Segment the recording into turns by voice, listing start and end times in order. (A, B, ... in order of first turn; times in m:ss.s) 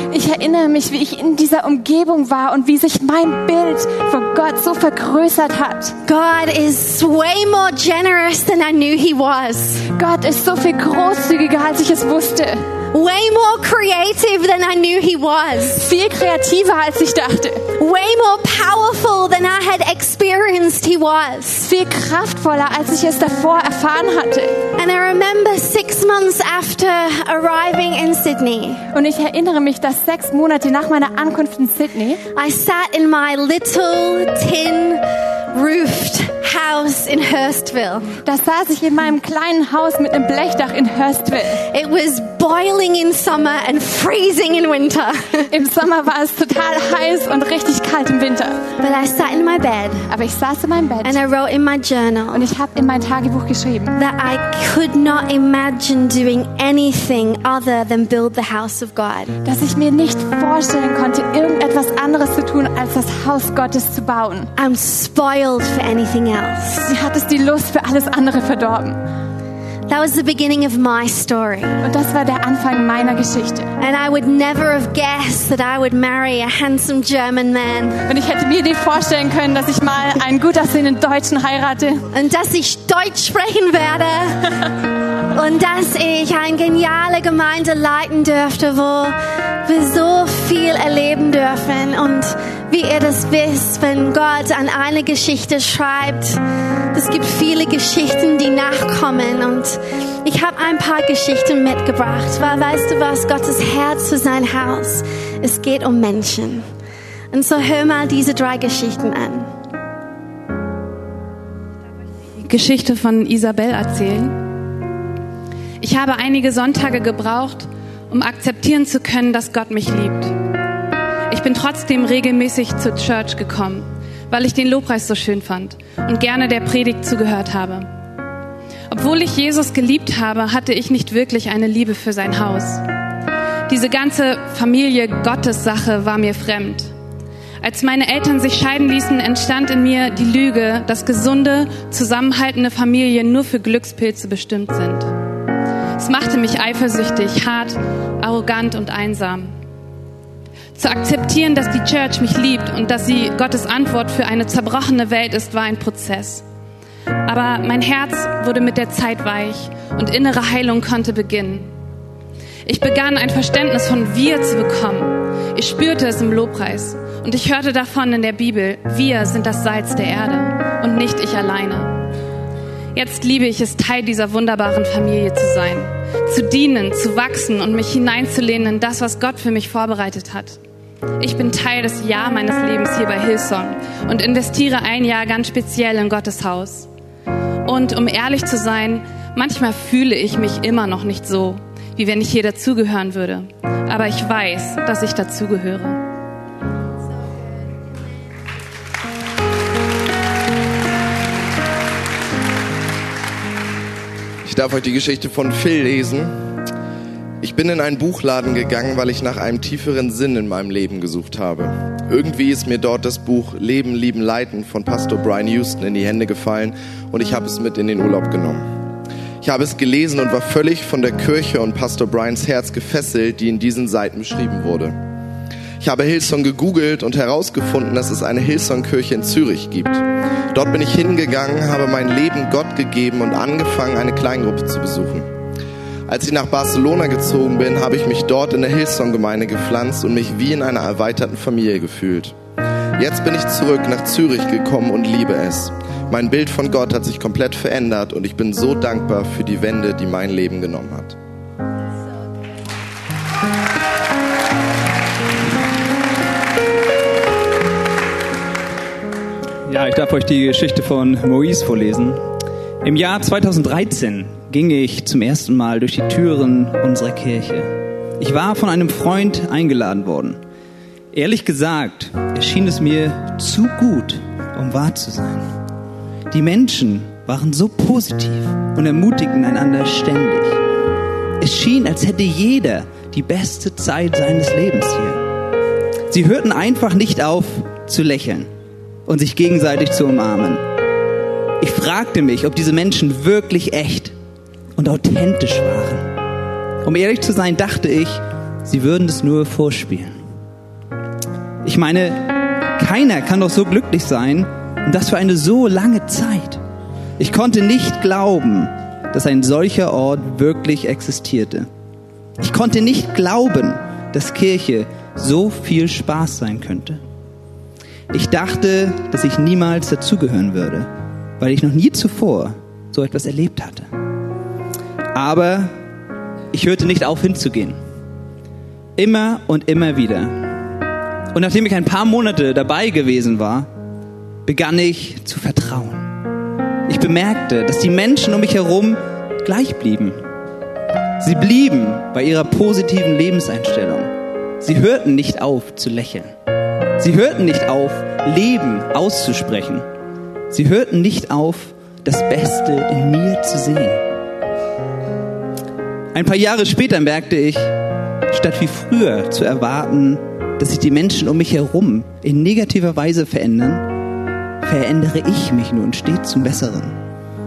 0:00.1-0:05.9 A
0:06.0-0:09.8 B
0:09.9-0:12.6 A
0:12.9-0:15.8 B
0:15.8-0:17.6 A
0:17.8-0:21.7 B
0:21.6-0:24.6 A
0:24.8-0:28.8 B
0:28.9-0:32.2 A
0:32.3-0:38.1 B
0:38.2-0:41.6 A
0:41.7-0:45.5 B
0:45.5-0:48.6 A
0:48.8-0:50.1 B
0:50.1-0:51.2 A
0:51.0-0:52.5 B
0:52.3-0:54.0 A
0:54.0-0:59.4 B
0:59.4-1:04.5 A
1:04.6-1:06.9 B
1:06.9-1:09.0 A
1:09.9-1:11.8 B
1:11.8-1:13.7 A
1:13.8-1:18.0 B
1:18.1-1:22.0 A
1:22.1-1:24.6 B
1:25.3-1:36.4 B
1:36.9-1:46.6 B
1:47.3-1:49.5 B
1:52.4-1:54.4 C
1:55.8-2:00.3 C
2:01.3-2:07.9 C
2:08.9-2:12.8 C
2:13.7-2:16.9 C
2:17.6-2:25.1 C
2:26.0-2:29.5 C
2:30.8-2:36.4 C
2:37.2-2:41.7 C
2:42.6-2:52.0 C
2:52.9-3:00.6 C
3:01.2-3:06.9 C
3:07.6-3:16.0 C
3:24.4-3:26.4 D
3:27.4-3:38.7 D
3:39.4-3:45.0 D
3:45.8-3:55.3 D
3:56.1-4:02.3 D
4:03.0-4:11.1 D
4:19.7-4:22.2 E
4:22.8-4:30.4 E
4:31.1-4:35.5 E
4:36.3-4:40.6 E
4:41.4-4:45.2 E
4:46.1-4:48.5 E
4:49.1-4:50.6 E
4:51.6-4:54.1 E
4:54.8-4:56.2 E
4:56.8-5:00.2 E
5:01.6-5:06.6 E
5:07.2-5:11.7 E
5:12.4-5:17.0 E
5:18.1-5:23.9 E
5:25.1-5:25.8 E
5:26.5-5:27.8 E
5:29.0-5:30.6 E
5:31.3-5:33.7 E
5:34.4-5:36.2 E
5:36.9-5:40.2 E
5:41.2-5:46.3 E
5:47.0-5:49.8 E
5:50.5-5:54.0 E
5:56.1-5:57.8 E
5:58.3-6:04.0 E
6:04.6-6:07.0 E